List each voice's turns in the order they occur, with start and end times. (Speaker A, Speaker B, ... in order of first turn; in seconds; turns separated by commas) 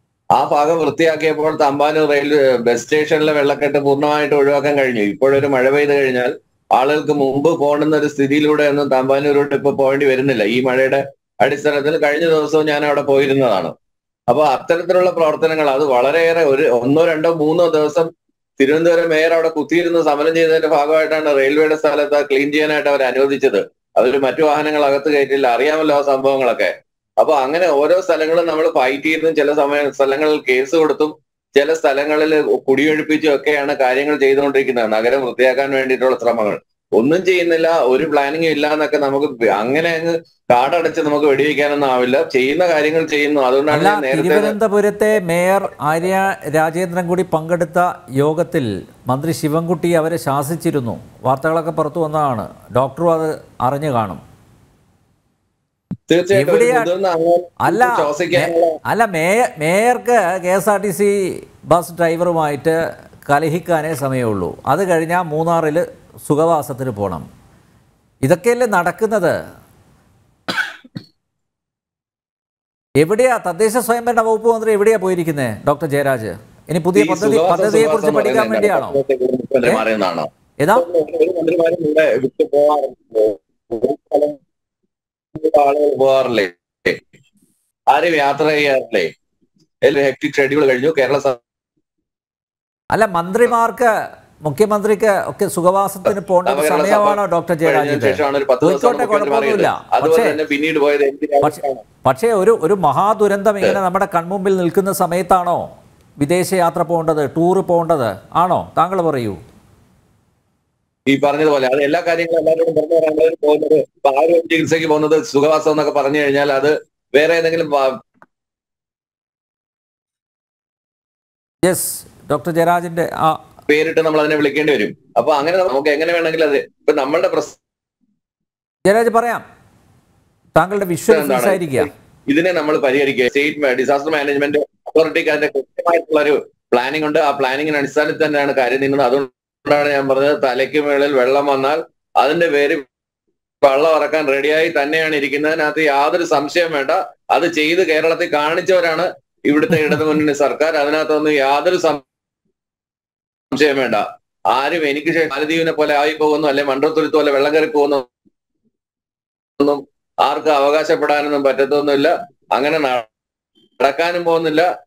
Speaker A: 0.3-13.7, Speaker A: 14.3-18.1, Speaker A: 18.6-44.5, Speaker B: 43.7-54.2, Speaker A: 56.1-58.8, Speaker B: 56.3-56.9, Speaker B: 57.6-61.1, Speaker B: 61.7-62.8, Speaker B: 63.3-67.2, Speaker B: 68.2-69.3, Speaker B: 73.0-79.0, Speaker A: 76.9-84.4, Speaker B: 80.6-80.8, Speaker A: 85.3-87.0, Speaker A: 87.9-89.1, Speaker A: 89.8-91.4, Speaker B: 92.9-93.9, Speaker B: 94.4-100.4, Speaker A: 96.1-101.8, Speaker B: 101.4-105.6, Speaker B: 106.2-109.4, Speaker A: 111.1-117.9, Speaker B: 121.7-123.4, Speaker A: 123.7-127.6, Speaker B: 128.9-129.4, Speaker B: 130.5-131.9, Speaker A: 131.1-142.8, Speaker A: 143.6-152.0, Speaker A: 153.5-158.0, Speaker A: 159.6-163.1, Speaker A: 163.8-164.7